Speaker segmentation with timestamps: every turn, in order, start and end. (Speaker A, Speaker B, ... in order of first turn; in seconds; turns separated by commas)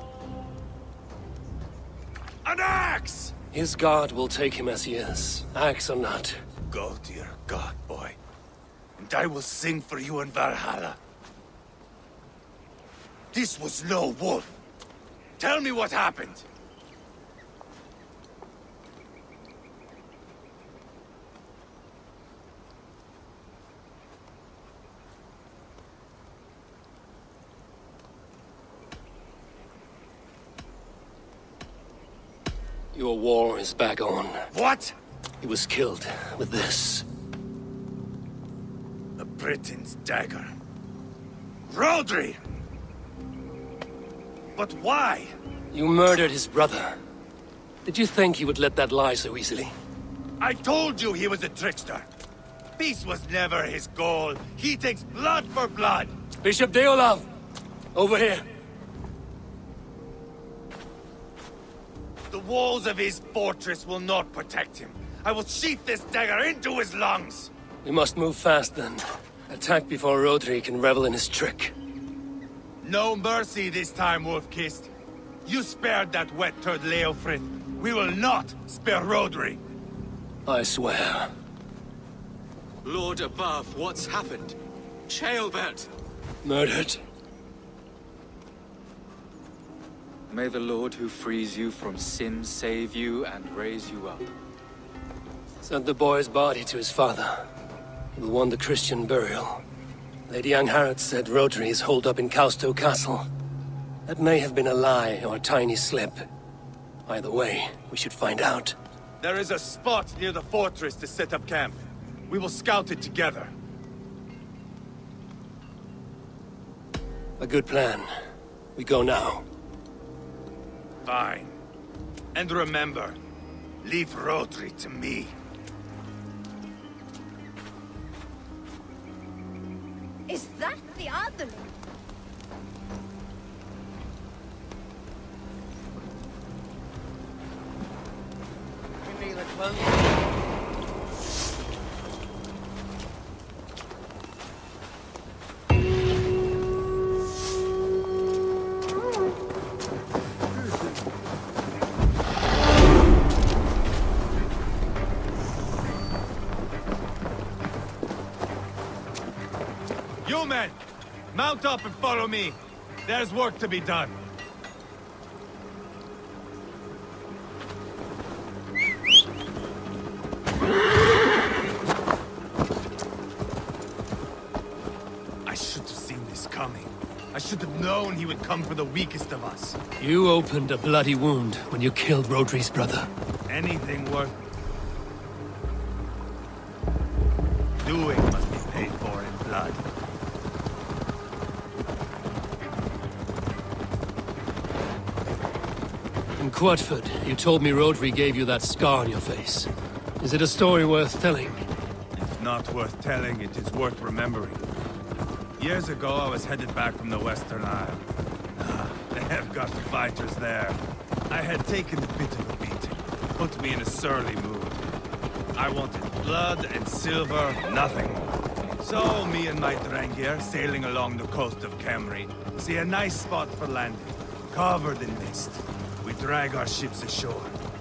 Speaker A: 2.5-3.4, Speaker B: 3.5-6.4, Speaker A: 6.7-8.2, Speaker A: 9.0-11.0, Speaker A: 13.3-14.5, Speaker A: 15.4-16.5, Speaker B: 32.9-34.5, Speaker A: 34.5-34.9, Speaker B: 35.4-37.1, Speaker A: 39.2-40.5, Speaker A: 41.7-42.4, Speaker A: 44.6-45.3, Speaker B: 45.7-47.0, Speaker B: 47.9-49.7, Speaker A: 50.4-52.1, Speaker A: 52.8-56.1, Speaker B: 56.4-57.3, Speaker B: 57.9-58.5, Speaker A: 62.3-67.5, Speaker B: 67.8-71.8, Speaker A: 72.8-74.9, Speaker A: 75.5-79.6, Speaker B: 80.5-81.3, Speaker C: 82.8-84.6, Speaker C: 85.1-85.9, Speaker B: 86.4-87.0, Speaker C: 90.3-94.3, Speaker B: 95.6-97.5, Speaker B: 98.2-99.6, Speaker B: 100.3-103.3, Speaker B: 104.1-106.3, Speaker B: 107.1-108.8, Speaker A: 109.2-113.5, Speaker B: 117.4-118.1, Speaker B: 118.8-119.5, Speaker A: 121.0-121.5, Speaker A: 122.3-123.2, Speaker A: 123.8-125.3, Speaker D: 130.3-131.7, Speaker D: 139.1-140.0, Speaker A: 160.2-160.8, Speaker A: 161.3-164.2, Speaker A: 175.4-179.8, Speaker B: 180.0-183.1, Speaker A: 183.5-184.3, Speaker A: 187.8-189.8, Speaker B: 196.4-201.6, Speaker A: 202.2-204.7, Speaker A: 205.6-208.0, Speaker A: 208.6-210.8, Speaker A: 211.3-214.8, Speaker A: 215.6-227.6